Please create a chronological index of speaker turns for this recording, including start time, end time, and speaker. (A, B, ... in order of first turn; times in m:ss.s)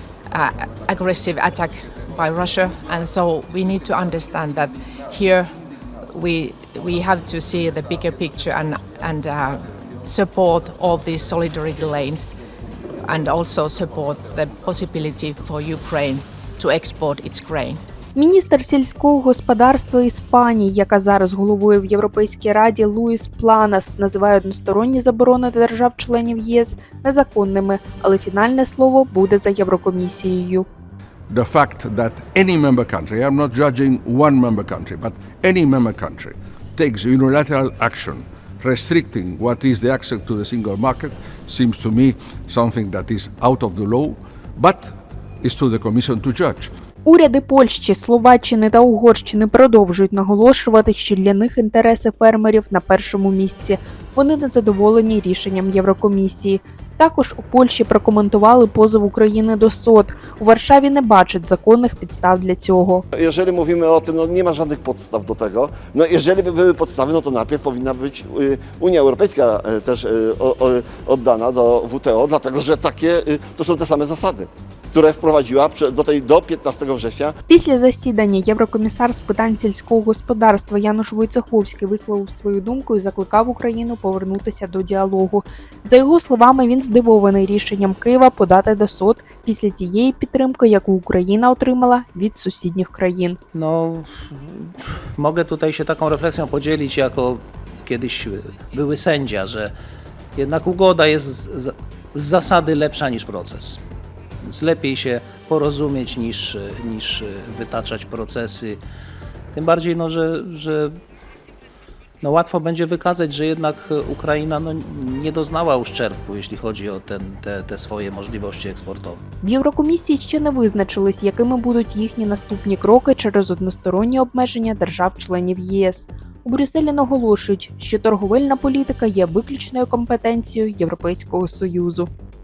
0:00.3-0:05.5 A
0:06.1-0:12.3 A
0:13.0-0:17.8 A
0:18.1-0:30.6 B
0:31.3-0:46.7 C
0:47.0-1:03.0 B
1:03.1-1:17.3 D
1:17.5-1:33.4 B
1:33.5-1:39.7 E
1:40.3-1:43.8 E
1:44.4-1:48.8 E
1:49.5-1:50.9 E
1:52.2-1:59.2 E
1:59.4-2:12.1 B